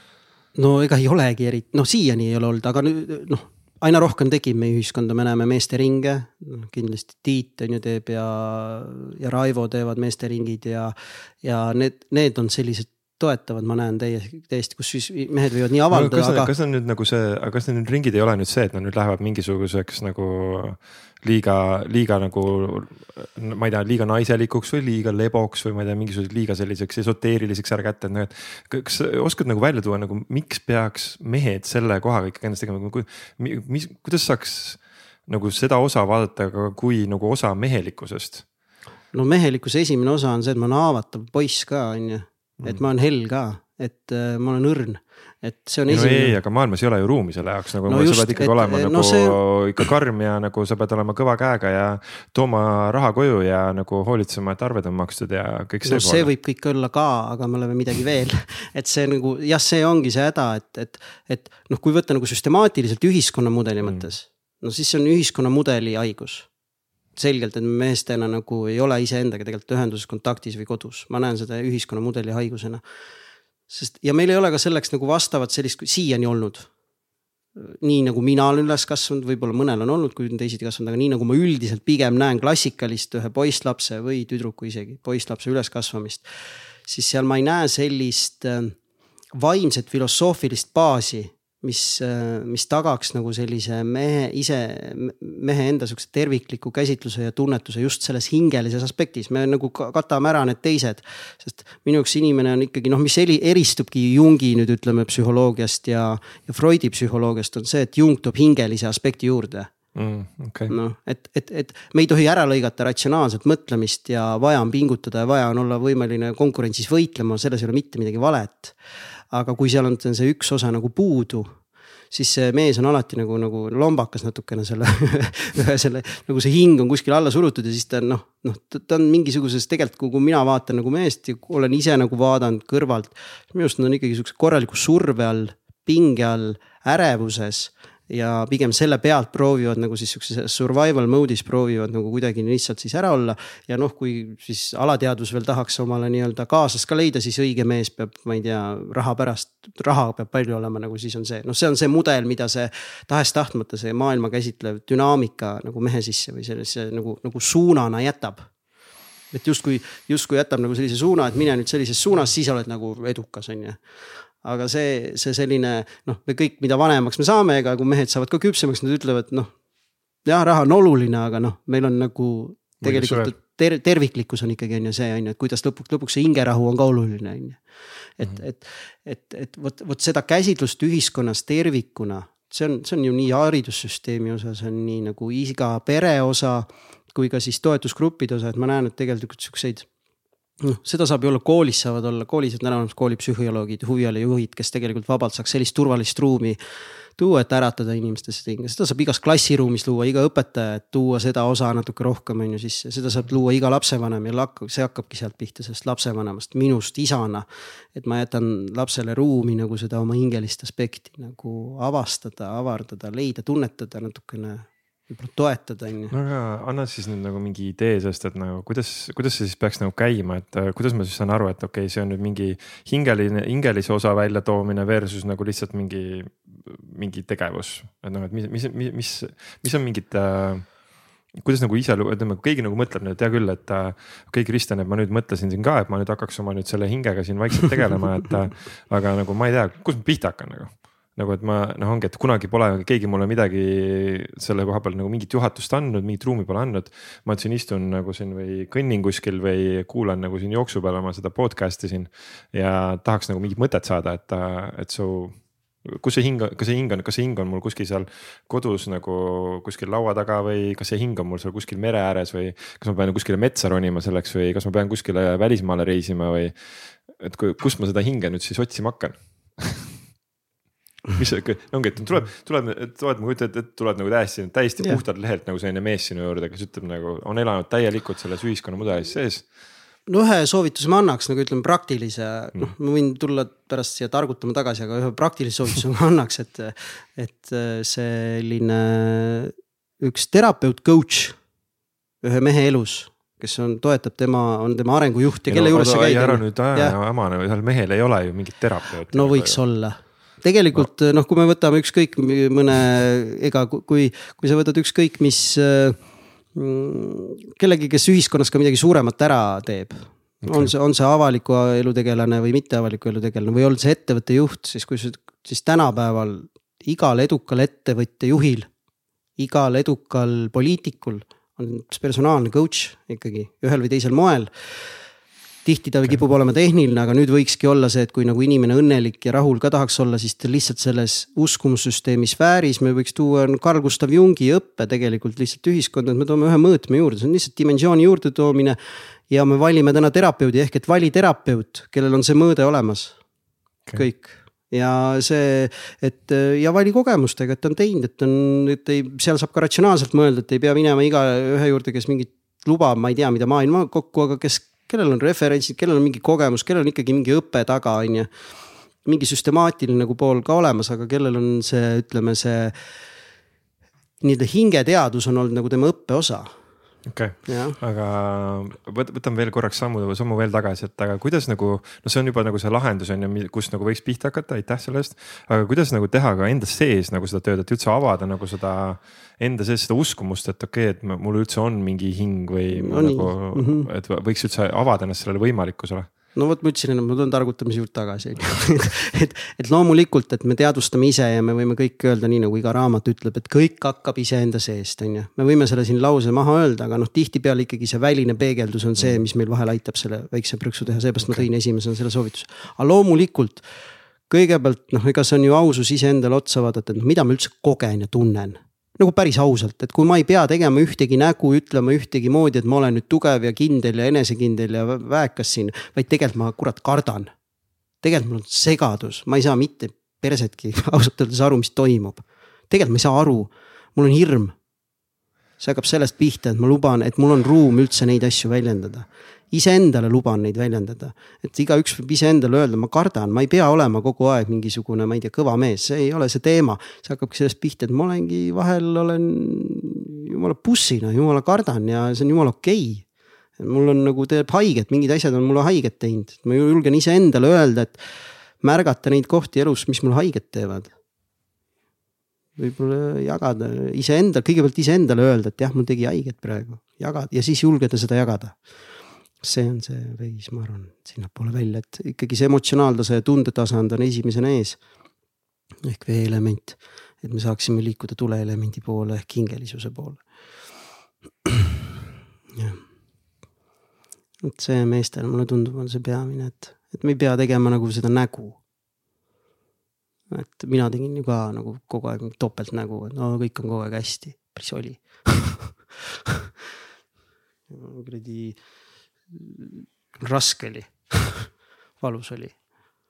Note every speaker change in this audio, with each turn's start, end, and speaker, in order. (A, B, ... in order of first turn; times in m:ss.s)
0:00.6-0:16.5 A
0:15.9-0:38.4 B
0:39.1-0:46.4 A
0:45.9-0:56.3 B
0:47.9-0:49.4 A
0:55.8-1:06.5 A
1:03.8-1:04.1 B
1:07.2-1:12.8 A
1:13.7-1:16.7 A
1:17.6-1:26.2 A
1:26.9-1:28.8 A
1:29.4-1:49.7 A
1:50.0-1:50.8 B
1:50.7-1:58.8 A
1:59.3-2:01.5 A
2:02.1-2:38.5 A
2:39.3-2:43.8 A
2:44.4-2:49.5 A
2:50.2-2:57.6 A
2:52.8-2:53.4 B
2:58.2-3:09.9 A
3:10.6-3:16.6 A
3:17.2-3:36.1 A
3:36.1-3:50.8 B
3:51.3-4:29.9 B
4:31.2-4:39.5 B
4:40.1-4:51.4 A
4:52.2-4:57.0 A
4:55.5-4:59.6 B
4:59.1-5:06.0 A
5:06.6-5:18.7 A
5:10.4-5:10.7 B
5:19.4-5:25.0 A
5:25.6-5:38.8 A
5:39.3-5:43.2 A
5:44.0-5:58.3 A
5:59.0-6:02.8 A
6:04.2-6:06.5 A
6:07.0-6:26.1 B
6:07.5-6:07.8 A
6:22.7-6:23.9 A
6:26.4-6:43.7 A
6:39.0-6:39.2 B
6:41.2-6:41.5 B
6:44.3-6:57.3 A
6:58.0-7:04.6 A
7:05.6-7:23.0 A
7:23.6-7:28.0 A
7:28.6-7:30.9 A
7:32.6-7:38.6 A
7:39.4-7:44.8 A
7:45.8-7:50.2 A
7:52.6-7:52.8 A
7:54.4-7:58.6 A
8:00.3-8:05.7 A
8:07.7-8:08.6 A
8:09.3-8:12.6 A